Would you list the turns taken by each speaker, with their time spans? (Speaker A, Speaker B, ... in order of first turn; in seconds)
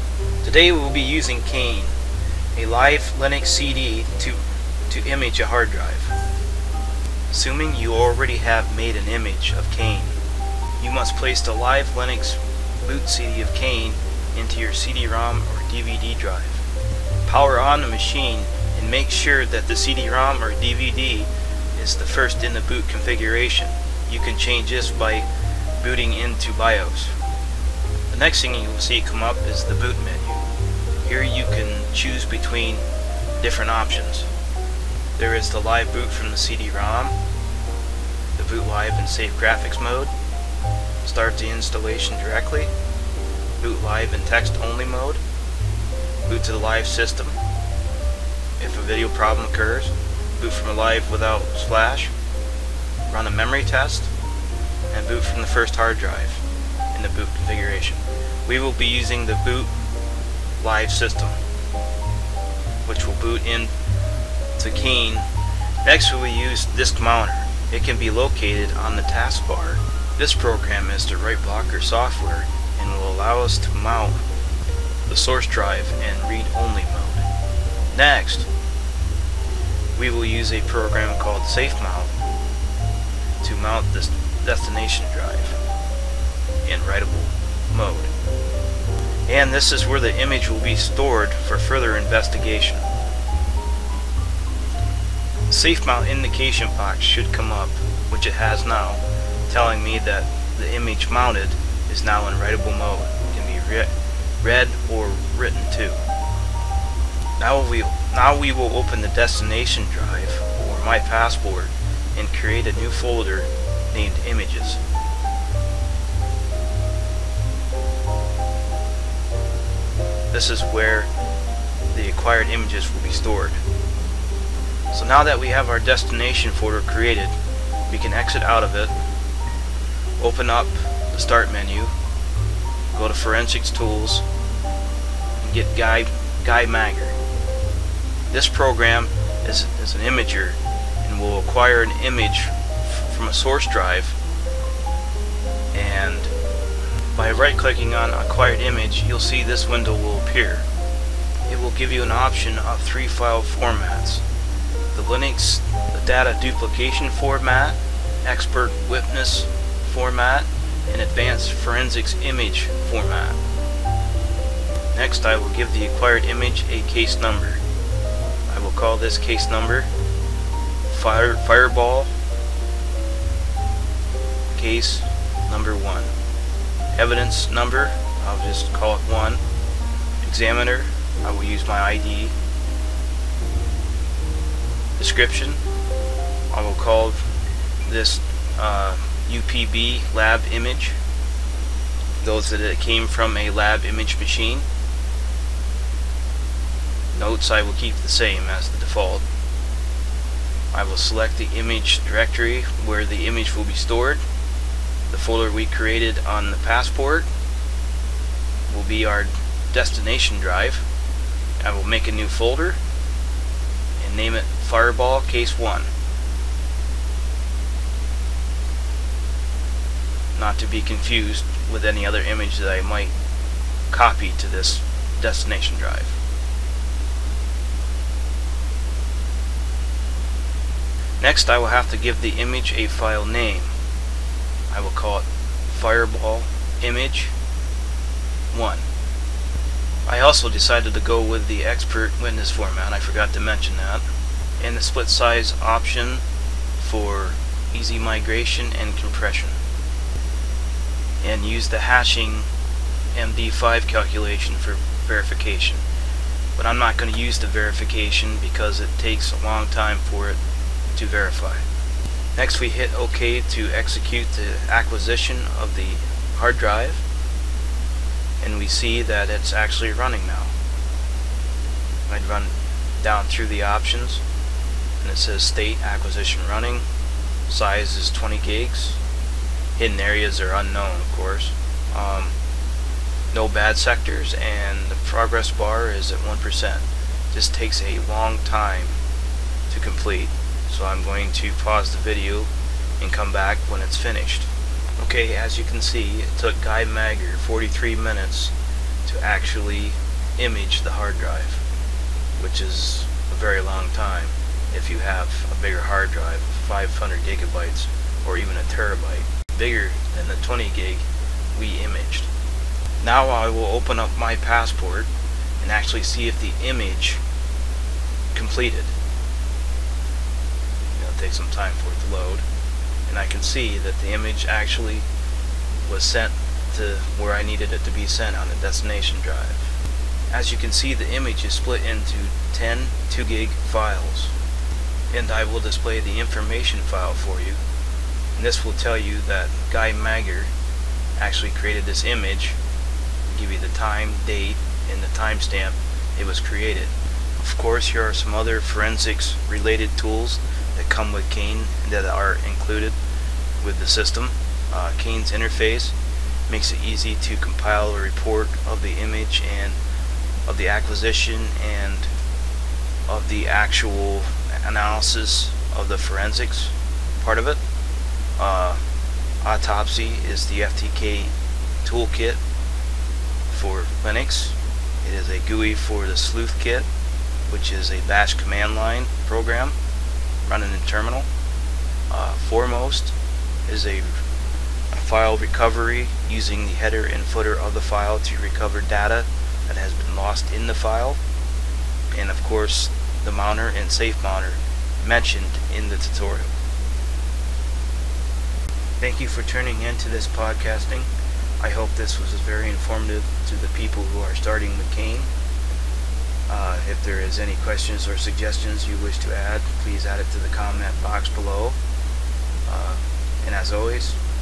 Speaker A: 0.4-1.9, 2.5-6.1, 7.3-10.2, 10.8-16.6, 17.2-25.3, 25.8-27.1, 28.1-30.4, 31.0-32.8, 33.4-34.3, 35.2-37.1, 38.3-40.1, 41.0-42.7, 43.6-45.2, 46.2-47.4, 48.6-52.1, 53.1-54.1, 54.9-56.4, 56.9-59.7, 60.6-61.4, 62.9-63.7, 64.6-65.2, 65.8-74.2, 75.0-77.2, 77.9-78.5, 80.0-82.1, 83.4-85.6, 86.6-88.1, 89.3-92.8, 95.5-106.0, 107.4-114.8, 120.3-121.1, 121.9-123.6, 124.9-127.3, 127.9-128.9, 130.2-131.9, 132.9-134.2, 135.4-137.1, 138.3-144.2, 145.7-146.3, 147.1-150.6, 151.5-154.2, 154.9-163.4, 164.9-167.6, 168.5-169.9, 170.9-172.1, 174.5-176.1, 176.9-179.4, 180.2-182.3, 185.0-185.6, 186.5-187.2, 187.8-190.9, 192.2-194.6, 197.1-199.2, 200.7-204.2, 205.1-207.3, 208.7-210.8, 211.6-212.8, 214.0-215.9, 220.3-223.1, 223.9-226.1, 231.2-233.7, 234.7-237.3, 238.5-238.8, 240.1-244.0, 244.6-246.2, 246.8-249.6, 251.2-252.5, 253.1-255.8, 256.6-260.4, 260.9-261.6, 262.3-267.0, 268.4-270.5, 272.1-274.2, 275.0-276.8, 277.5-279.0, 279.8-282.3, 283.3-288.9, 289.7-292.5, 293.0-294.5, 295.0-298.5, 299.0-301.6, 302.4-311.0, 311.5-312.3, 313.0-315.1, 315.6-317.2, 318.3-318.9, 320.9-322.4, 323.1-325.0, 325.8-329.6, 330.3-334.3, 335.1-337.6, 338.4-340.5, 341.2-342.6, 343.3-352.9, 353.6-355.9, 356.5-359.8, 360.5-362.1, 363.1-367.6, 368.4-368.8, 369.4-371.3, 371.8-372.4, 373.5-376.9, 377.5-379.8, 380.4-381.3, 382.1-383.1, 383.7-384.2, 384.9-391.2, 392.1-396.5, 399.0-401.1, 401.6-405.3, 406.5-411.8, 412.7-414.2